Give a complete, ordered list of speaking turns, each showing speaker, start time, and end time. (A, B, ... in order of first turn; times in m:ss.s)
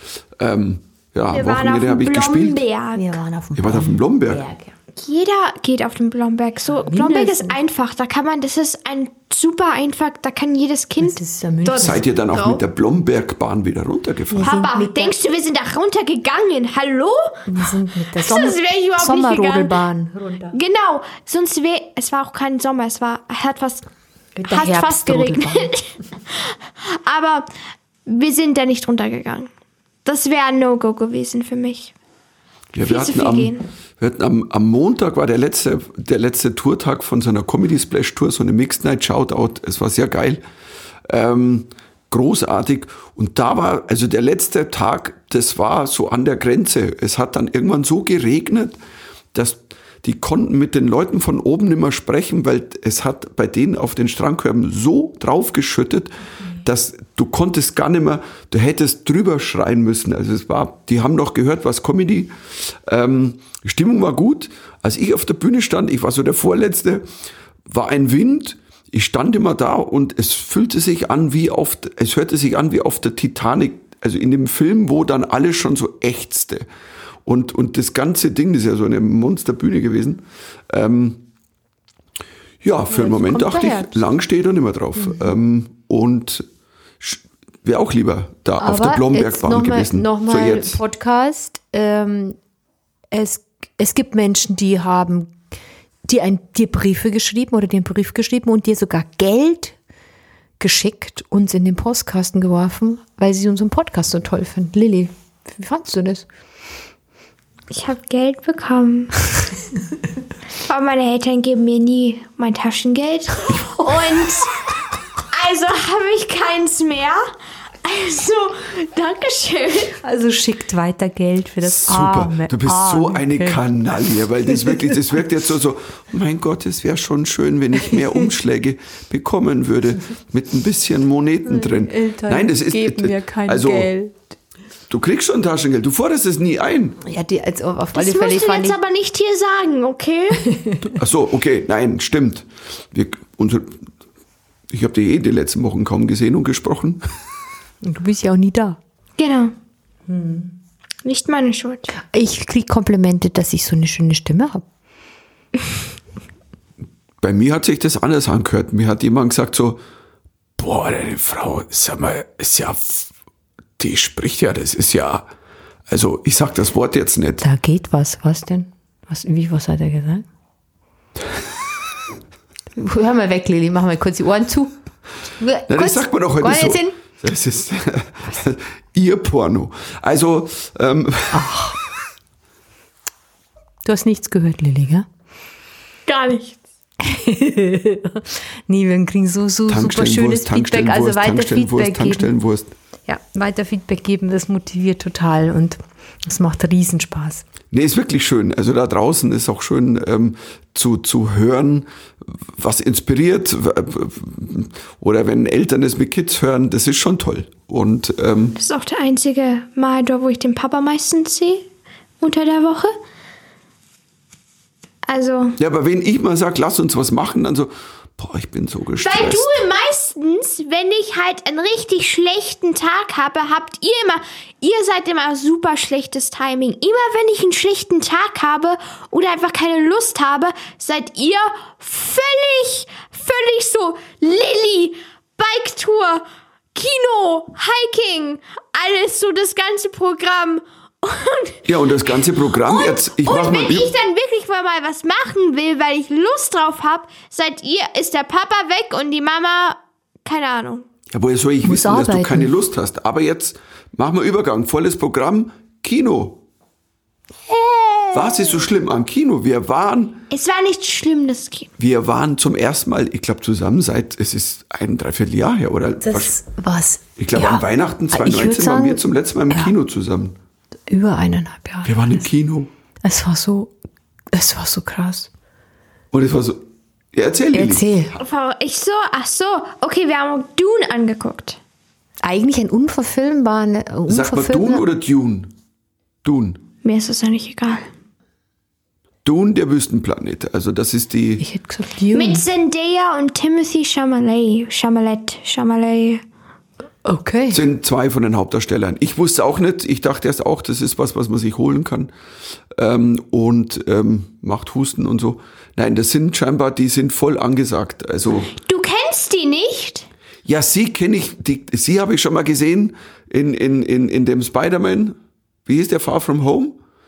0:00.4-0:02.6 A
0:01.3-0:03.1 B
0:03.0-0:04.7 C
0:03.6-0:04.5 A
0:05.0-0:12.6 B
0:06.7-0:07.6 C
0:11.0-0:12.0 C
0:11.8-0:14.5 A
0:14.3-0:15.2 C
0:14.4-0:17.5 B
0:17.5-0:20.6 C
0:18.2-0:19.8 B
0:20.5-0:23.9 B
0:24.4-0:25.8 C
0:24.5-0:27.5 B
0:28.1-0:29.5 B
0:30.0-0:31.9 B
0:32.7-0:40.4 A
0:32.8-0:33.6 B
0:41.1-0:48.8 A
0:49.3-1:07.1 A
1:07.7-1:16.6 A
1:17.2-1:21.2 A
1:22.6-1:26.4 A
1:22.9-1:24.0 C
1:25.0-1:25.4 C
1:27.0-1:30.8 A
1:28.6-1:32.4 C
1:33.1-1:35.3 C
1:36.0-1:39.8 C
1:40.6-1:46.3 C
1:47.7-1:49.2 B
1:50.6-1:54.6 B
1:55.3-1:57.3 B
1:57.8-2:00.0 B
2:00.0-2:03.6 C
2:01.6-2:13.9 A
2:04.5-2:04.9 C
2:11.4-2:14.2 C
2:14.9-2:17.0 A
2:17.0-2:18.8 C
2:17.9-2:20.5 B
2:20.5-2:20.9 C
2:20.9-2:23.9 A
2:24.7-2:27.0 A
2:27.8-2:28.8 C
2:29.2-2:29.5 B
2:30.1-2:30.5 C
2:31.0-2:31.9 B
2:32.0-2:34.6 C
2:37.2-2:39.8 A
2:40.6-2:43.1 A
2:43.8-2:45.3 A
2:45.9-2:47.4 A
2:47.4-2:50.2 C
2:52.7-2:54.8 C
2:55.4-2:57.0 C
2:55.7-3:01.6 A
3:01.3-3:01.8 C
3:03.8-3:05.1 C
3:06.1-3:06.6 B
3:07.0-3:12.3 C
3:09.7-3:12.7 A
3:13.1-3:17.5 C
3:17.7-3:28.6 A
3:28.6-3:31.7 B
3:32.2-3:33.0 B
3:35.1-3:35.6 B
3:35.6-3:39.6 A
3:39.0-3:56.2 B
3:56.8-4:01.7 B
4:01.7-4:03.9 A
4:02.4-4:10.9 B
4:11.1-4:16.4 A
4:11.6-4:12.5 C
4:17.5-4:18.4 C
4:18.1-4:20.2 A
4:20.3-4:21.7 B
4:21.8-4:26.4 A
4:26.0-4:29.7 C
4:27.2-4:30.4 A
4:30.9-4:32.2 C
4:31.8-4:32.7 A
4:33.0-4:33.7 C
4:34.3-4:35.3 C
4:36.1-4:36.6 A
4:37.1-4:37.9 A
4:37.5-4:38.2 C
4:38.2-4:41.6 B
4:42.2-4:44.8 C
4:44.1-4:45.5 A
4:46.2-4:46.6 A
4:46.8-4:47.9 B
4:49.2-4:51.4 A
4:51.4-4:52.4 C
4:52.1-4:56.2 B
4:57.0-4:57.6 C
4:57.5-5:02.1 A
5:02.7-5:08.5 A
5:08.5-5:10.1 B
5:10.5-5:16.8 A